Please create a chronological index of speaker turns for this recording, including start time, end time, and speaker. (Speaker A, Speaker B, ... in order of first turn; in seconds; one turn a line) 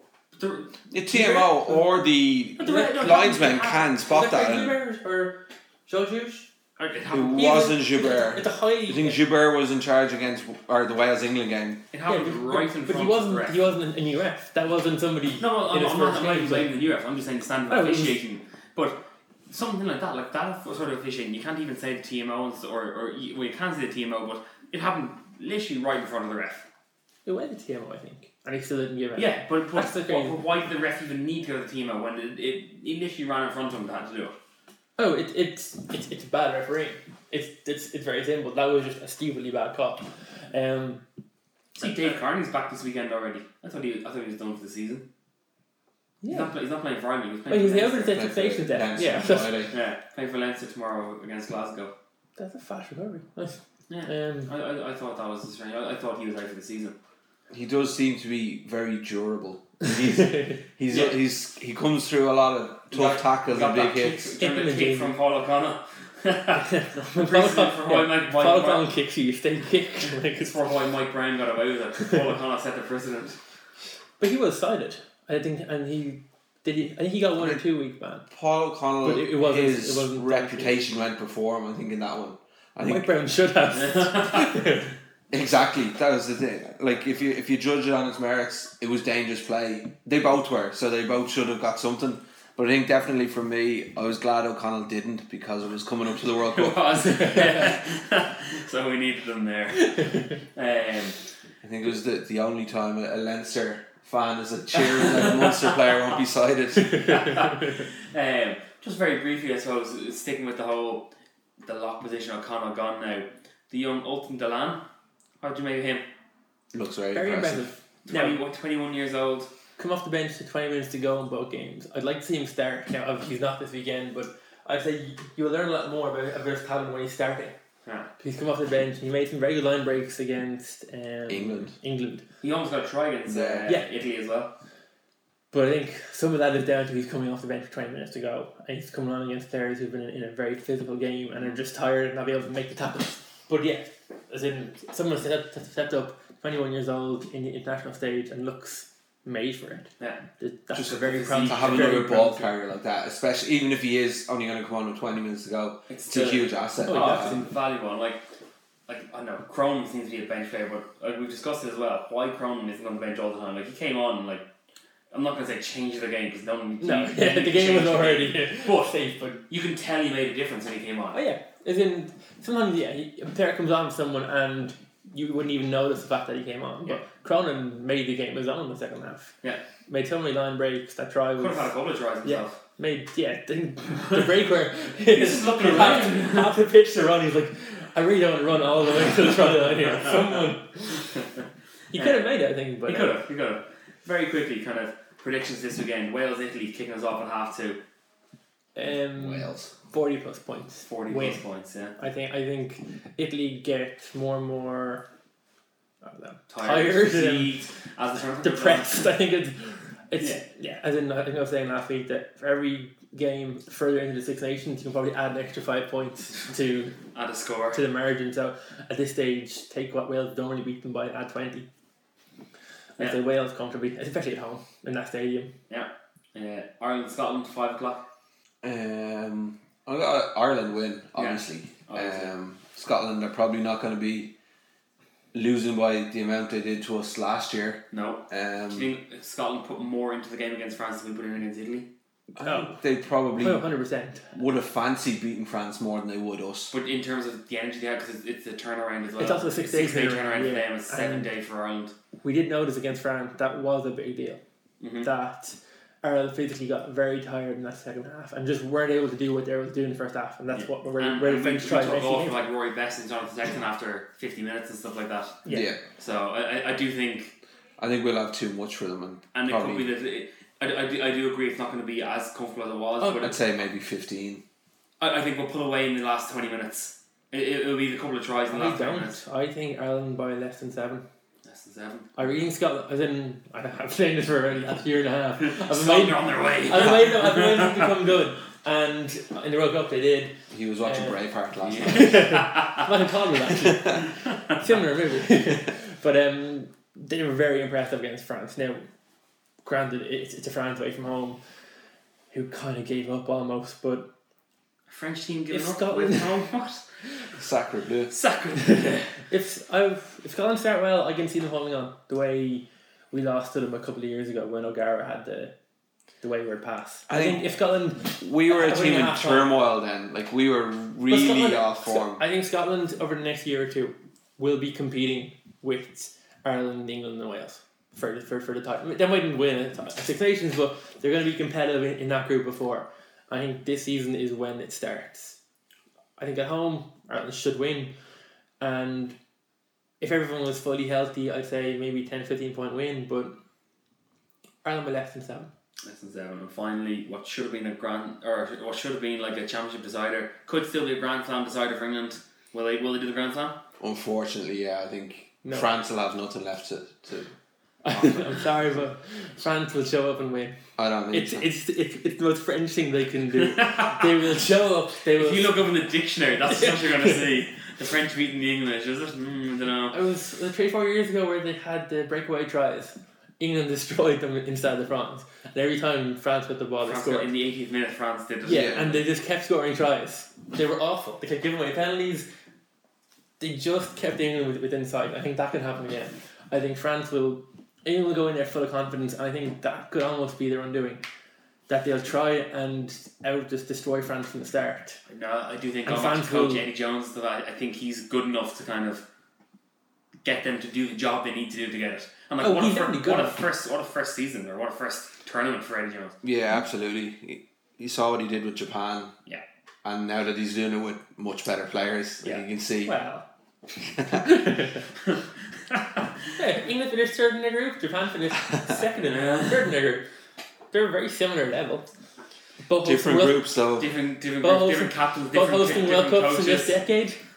Speaker A: 0.3-0.7
Speaker B: 0.9-4.7
Speaker C: 1.1-1.9
Speaker C: 2.6-6.5
Speaker A: 2.6-3.9
Speaker A: 6.8-7.7
Speaker B: 7.1-11.8
Speaker C: 7.3-9.2
Speaker A: 11.9-13.6
Speaker C: 12.1-16.7
Speaker A: 15.4-26.6
Speaker C: 17.7-18.2
Speaker C: 27.2-30.4
Speaker A: 29.1-34.3
Speaker C: 35.0-41.0
Speaker A: 41.8-45.1
Speaker C: 46.2-46.5
Speaker A: 46.3-48.2
Speaker C: 47.5-49.6
Speaker B: 48.1-49.7
Speaker A: 49.7-51.9
Speaker C: 52.4-54.5
Speaker A: 53.9-57.0
Speaker B: 57.5-64.3
Speaker C: 60.0-60.6
Speaker A: 60.9-61.2
Speaker A: 62.9-68.9
Speaker C: 64.4-65.1
Speaker C: 66.5-70.6
Speaker A: 70.3-73.4
Speaker C: 74.2-78.2
Speaker B: 78.3-83.1
Speaker C: 79.0-80.8
Speaker C: 82.8-84.9
Speaker A: 83.8-84.5
Speaker B: 85.3-96.8
Speaker A: 96.5-101.2
Speaker C: 97.2-97.6
Speaker C: 99.9-100.2
Speaker B: 101.6-107.3
Speaker A: 104.8-105.7
Speaker A: 107.0-111.1
Speaker A: 111.6-114.8
Speaker A: 115.4-116.0
Speaker B: 116.7-117.7
Speaker C: 117.1-118.4
Speaker A: 118.0-119.5
Speaker C: 119.8-127.5
Speaker C: 128.2-132.2
Speaker B: 131.3-131.7
Speaker A: 132.4-134.5
Speaker B: 133.3-133.7
Speaker C: 135.5-152.5
Speaker B: 150.7-157.4
Speaker A: 150.9-152.1
Speaker A: 155.9-158.2
Speaker C: 156.8-157.4
Speaker A: 158.9-164.5
Speaker A: 165.1-171.2
Speaker C: 166.8-169.4
Speaker C: 171.1-179.3
Speaker C: 179.9-181.7
Speaker A: 181.4-182.6
Speaker C: 182.2-191.1
Speaker A: 185.1-186.6
Speaker C: 191.9-193.2
Speaker A: 191.9-197.8
Speaker C: 198.8-201.4
Speaker B: 199.2-199.7
Speaker A: 200.9-201.9
Speaker C: 202.0-205.0
Speaker C: 206.0-207.5
Speaker A: 206.5-209.1
Speaker C: 208.4-216.9
Speaker A: 217.1-217.8
Speaker C: 217.7-221.7
Speaker C: 223.0-225.5
Speaker A: 225.7-228.0
Speaker B: 228.6-234.3
Speaker A: 231.2-232.3
Speaker B: 235.3-238.9
Speaker A: 237.9-241.9
Speaker B: 242.3-243.7
Speaker C: 242.4-242.8
Speaker C: 243.3-244.3
Speaker B: 244.3-246.7
Speaker A: 246.7-251.9
Speaker C: 249.2-251.3
Speaker C: 252.2-254.4
Speaker A: 254.8-255.1
Speaker C: 255.0-262.4
Speaker A: 260.5-265.4
Speaker B: 265.5-265.8
Speaker A: 266.0-267.4
Speaker B: 267.8-269.9
Speaker A: 269.3-273.4
Speaker C: 273.0-273.3
Speaker B: 273.2-274.4
Speaker A: 275.0-279.2
Speaker C: 278.5-281.0
Speaker A: 281.4-282.1
Speaker C: 282.1-291.2
Speaker A: 285.4-287.9
Speaker B: 290.5-292.1
Speaker A: 291.6-292.8
Speaker C: 291.8-298.9
Speaker B: 293.6-294.0
Speaker C: 299.6-301.4
Speaker C: 302.3-304.1
Speaker A: 304.9-306.8
Speaker C: 305.5-306.3
Speaker B: 307.4-308.1
Speaker A: 308.1-309.1
Speaker C: 309.3-315.5
Speaker C: 316.2-319.5
Speaker B: 317.1-317.6
Speaker B: 318.2-322.2
Speaker C: 321.1-335.4
Speaker C: 336.2-337.9
Speaker C: 338.6-339.1
Speaker C: 340.0-343.4
Speaker C: 344.6-345.5
Speaker A: 345.8-353.6
Speaker B: 353.8-357.3
Speaker C: 357.8-360.6
Speaker B: 357.9-358.4
Speaker B: 360.8-361.5
Speaker C: 361.1-365.6
Speaker A: 363.3-364.1
Speaker A: 365.1-369.9
Speaker C: 366.5-367.2
Speaker C: 369.9-377.3
Speaker A: 376.8-379.1
Speaker C: 378.4-382.3
Speaker B: 378.5-378.8
Speaker C: 383.4-391.0
Speaker C: 391.7-395.0
Speaker A: 395.1-399.0
Speaker C: 395.9-396.7
Speaker A: 400.2-406.1
Speaker C: 402.4-403.4
Speaker B: 406.2-409.1
Speaker B: 409.8-412.9
Speaker C: 412.8-413.2
Speaker B: 413.9-414.3
Speaker C: 414.1-414.8
Speaker A: 415.7-416.0
Speaker C: 416.4-420.1
Speaker A: 419.0-419.7
Speaker C: 420.7-421.9
Speaker C: 422.6-423.4
Speaker B: 422.8-423.9
Speaker A: 423.8-426.8
Speaker C: 424.4-427.2